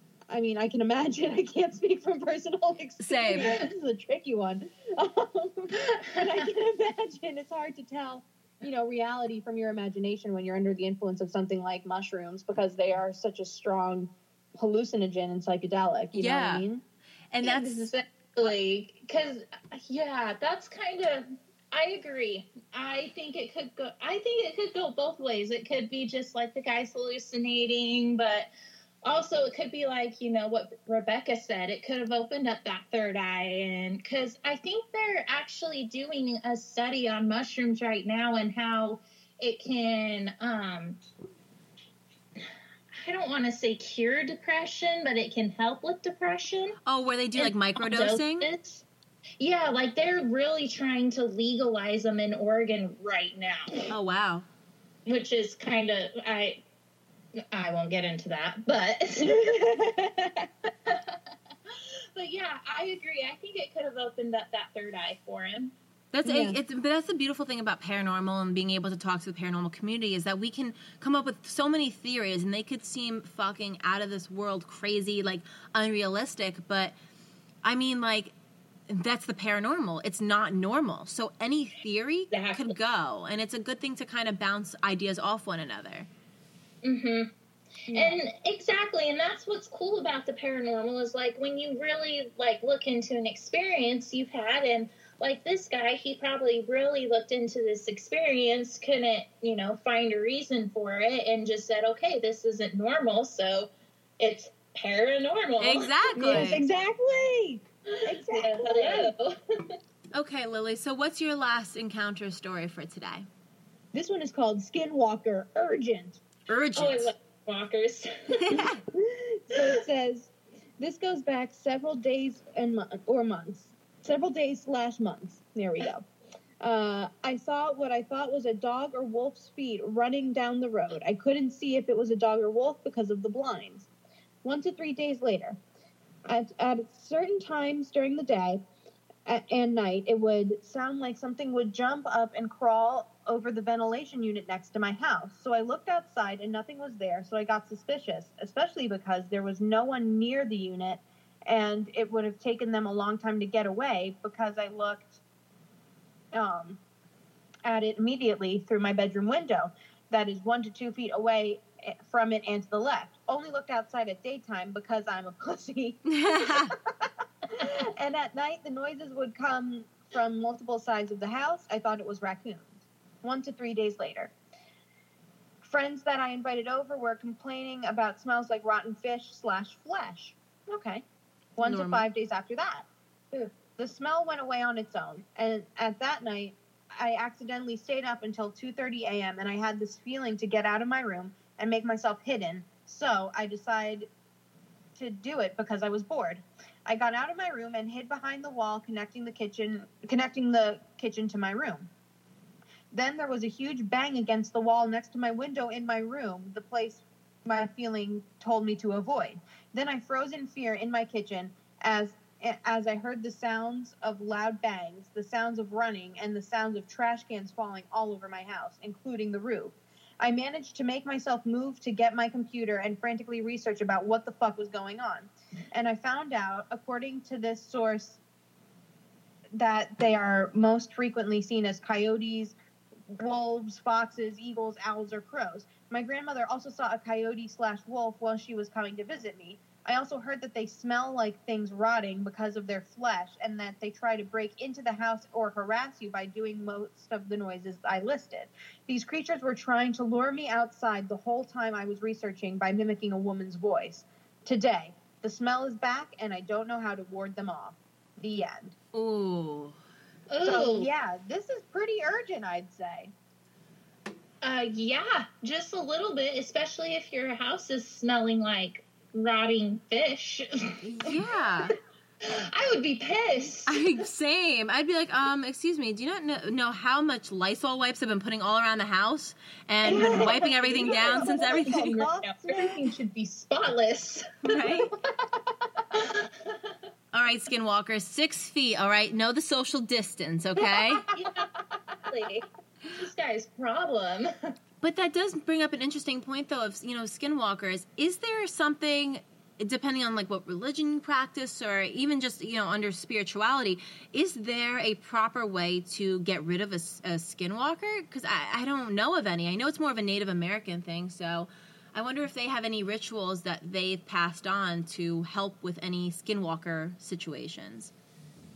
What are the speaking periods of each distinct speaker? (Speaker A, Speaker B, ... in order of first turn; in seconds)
Speaker A: 0.3-16.8, 59.3-60.3, 66.2-66.6, 87.9-88.2, 106.2-109.1, 113.9-116.2, 119.0-126.1, 126.6-133.9, 134.4-135.6, 136.3-138.6, 139.2-155.2, 156.3-156.8, 157.7-174.3, 175.6-181.0, 181.6-182.9, 183.8-194.1, 194.9-201.9, 202.9-228.2, 229.6-232.6, 233.1-258.8, 260.4-263.1, 279.9-282.9
Speaker B: 3.0-3.6, 16.1-16.7, 17.3-17.9, 46.9-48.5, 53.9-54.5, 66.1-76.9, 77.6-78.3, 78.9-86.1, 105.6-106.6, 110.1-113.2, 116.5-117.1, 118.4-118.8, 166.1-166.8, 181.6-182.1, 258.9-259.8, 270.8-271.8, 273.7-282.0, 284.4-284.9, 287.1-291.1, 294.8-317.9
Speaker C: 17.4-28.5, 29.1-41.0, 43.0-46.8, 47.4-48.9, 49.4-53.7, 55.1-56.6, 57.5-59.6, 60.9-61.2, 62.1-65.7, 82.3-82.8, 86.8-87.3, 87.9-106.6, 107.9-109.3, 116.8-118.6, 260.3-260.9, 264.4-271.1, 272.4-273.8, 279.9-284.9, 285.9-286.7, 291.1-291.5, 292.1-294.3